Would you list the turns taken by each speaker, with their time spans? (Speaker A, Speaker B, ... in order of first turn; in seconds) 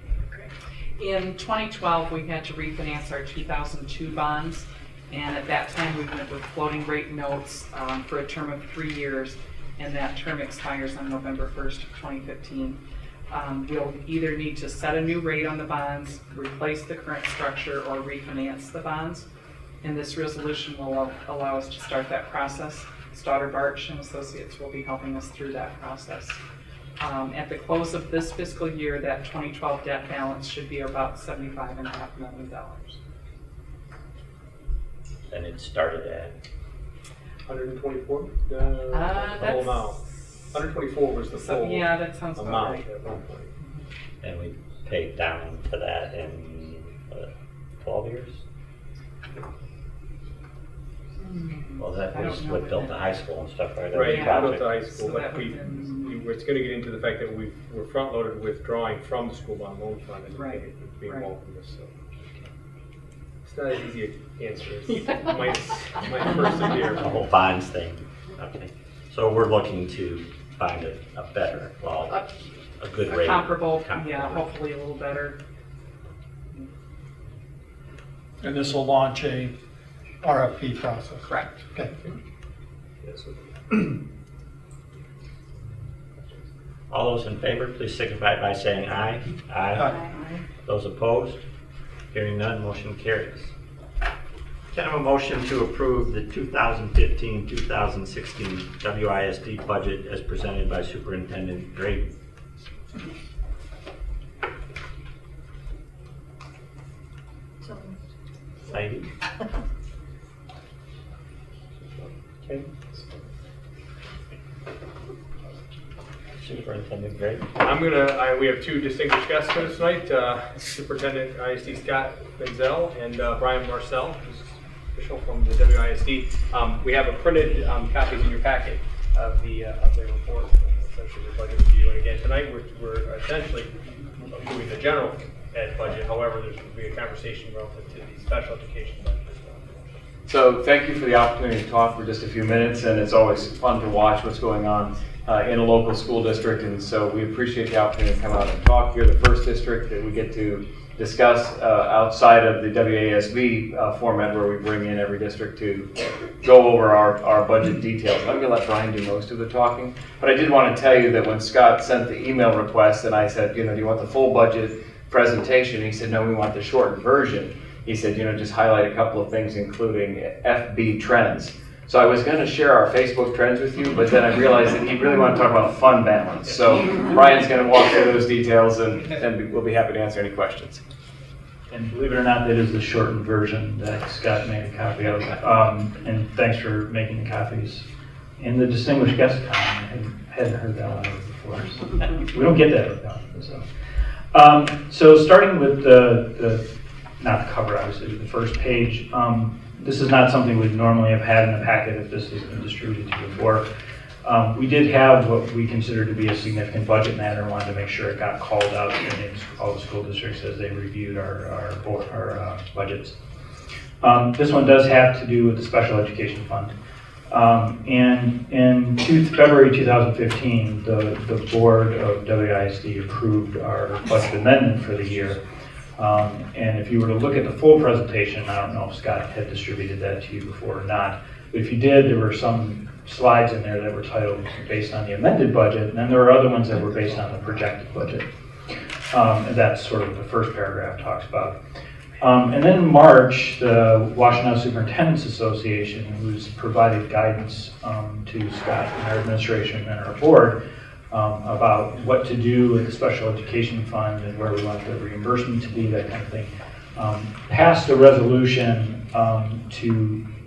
Speaker A: 0.3-19.2, 19.8-26.4, 27.0-33.0, 38.9-40.0, 41.3-42.8, 51.2-52.9, 54.0-56.1, 60.3-61.3, 73.1-75.3
Speaker B: 35.3-36.3, 44.2-47.3, 47.8-48.4, 51.8-55.0, 67.0-72.2, 72.8-74.5, 86.9-90.0, 90.6-91.4, 92.1-93.5, 94.7-102.1, 108.7-109.1, 116.4-117.5
Speaker C: 37.5-43.5, 53.9-61.9, 63.5-67.1, 83.0-83.4, 112.5-113.0, 117.6-139.7, 176.5-176.9
Speaker D: 78.4-79.5, 80.2-82.0, 89.7-90.0
Speaker E: 140.3-155.9, 156.4-180.8
Speaker F: 181.7-187.9, 188.4-193.7, 194.3-203.7, 204.2-213.2, 214.0-216.7, 217.3-225.4, 226.0-238.3, 239.1-241.6, 242.2-260.2